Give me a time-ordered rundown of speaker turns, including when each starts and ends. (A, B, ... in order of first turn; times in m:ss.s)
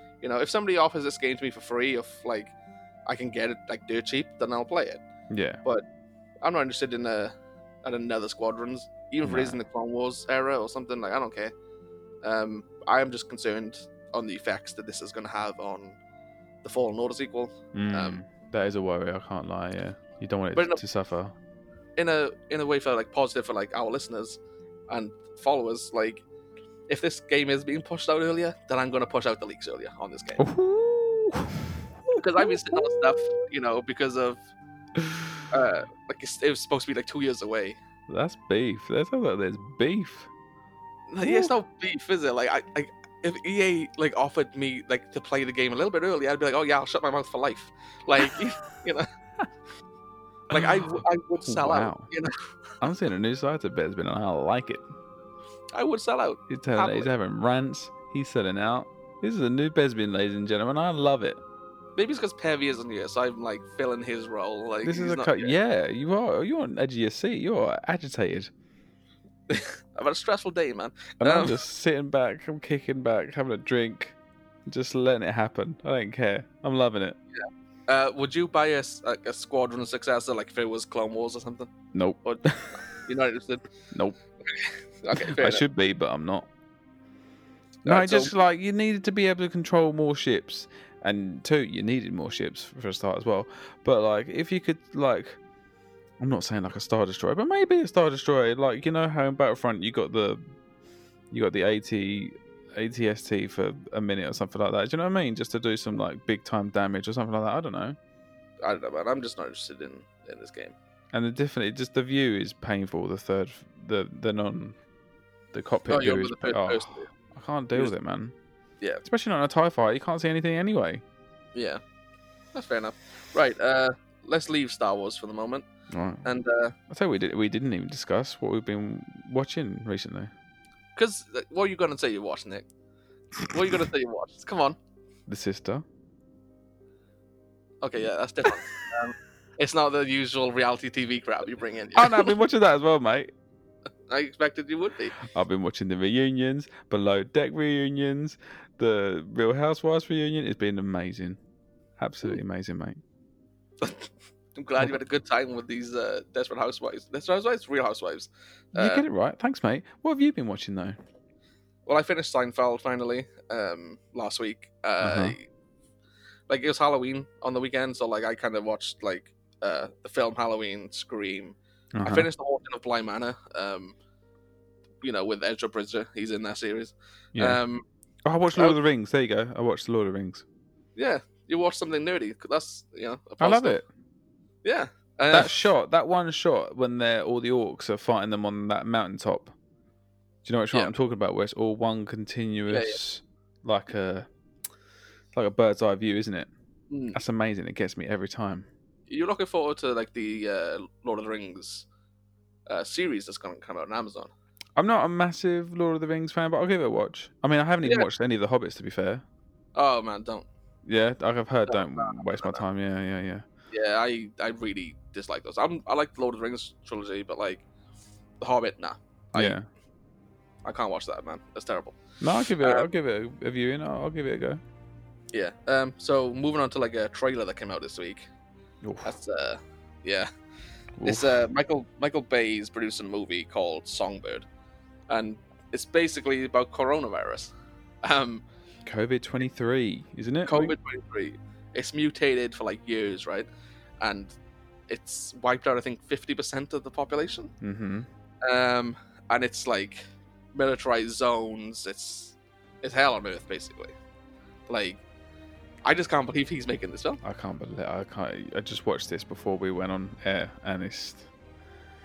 0:00.2-0:02.5 A
0:03.1-0:05.0 A
0:05.3-0:05.6 B
0:06.4-0:11.5 A
0:09.2-0:09.6 B
0:12.2-0:16.0 A
0:16.6-0:18.2 A
0:17.7-0:21.4 B
0:20.6-0:20.8 A
0:22.0-0:26.2 A
0:26.9-0:30.4 A
0:30.4-0:33.4 B
0:32.1-0:34.4 A
0:35.0-0:35.2 B
0:35.5-0:37.8 A
0:38.1-0:40.3 B
0:41.1-0:49.1 A
0:41.2-0:41.5 B
0:50.5-0:52.3 A
0:50.5-0:52.1 B
0:52.8-0:54.8 B
0:55.7-0:57.1 A
0:56.5-1:01.4 B
1:02.0-1:05.6 A
1:04.8-1:08.5 B
1:09.5-1:11.6 A
1:11.2-1:17.2 B
1:17.4-1:21.7 A
1:21.9-1:22.8 B
1:22.2-1:23.7 A
1:23.9-1:24.2 B
1:24.4-1:25.6 A
1:25.1-1:26.5 B
1:27.8-1:28.3 A
1:27.8-1:35.4 B
1:36.2-1:40.4 B
1:41.3-1:48.0 B
1:48.6-1:50.8 A
1:51.1-1:54.8 B
1:55.5-1:58.3 B
1:55.9-1:57.1 A
1:59.0-2:01.0 B
2:01.6-2:01.8 A
2:02.5-2:05.7 A
2:05.9-2:06.2 B
2:06.2-2:06.8 A
2:06.9-2:10.3 B
2:11.0-2:12.6 A
2:13.4-2:14.8 A
2:15.3-2:15.8 B
2:17.8-2:22.3 A
2:22.0-2:23.3 B
2:24.1-2:25.2 A
2:25.2-2:31.4 B
2:32.0-2:33.0 B
2:33.8-2:39.0 A
2:38.8-2:41.0 B
2:41.9-2:45.5 A
2:45.0-2:45.4 B
2:46.5-2:54.0 A
2:51.9-2:52.3 B
2:55.0-2:57.8 A
2:57.4-2:57.6 B
2:58.2-3:00.4 B
3:01.0-3:03.8 A
3:03.4-3:03.9 B
3:04.6-3:05.6 A
3:05.3-3:09.5 B
3:10.4-3:14.3 B
3:12.7-3:13.0 A
3:15.3-3:16.5 B
3:16.9-3:17.2 A
3:17.1-3:18.7 B
3:19.1-3:21.9 A
3:22.7-3:24.3 A
3:24.8-3:29.2 B
3:27.8-3:28.1 A
3:29.8-3:30.5 A
3:30.9-3:33.4 B
3:31.7-3:32.6 A
3:33.7-3:37.6 A
3:38.4-3:39.6 A
3:39.3-3:39.6 B
3:40.6-3:42.0 A
3:42.2-3:44.6 B
3:42.6-3:42.9 A
3:45.3-3:48.3 A
3:48.8-3:49.1 B
3:49.0-3:50.3 A
3:51.0-3:51.4 B
3:51.0-3:54.5 A
3:55.1-3:57.5 A
3:58.0-3:58.4 A
3:58.8-4:00.8 B
4:00.5-4:03.5 A
4:04.0-4:04.4 A
4:04.9-4:07.5 A
4:07.6-4:08.1 B
4:08.4-4:10.0 A
4:10.5-4:14.0 A
4:14.7-4:15.0 A
4:15.8-4:17.2 A
4:17.2-4:21.3 B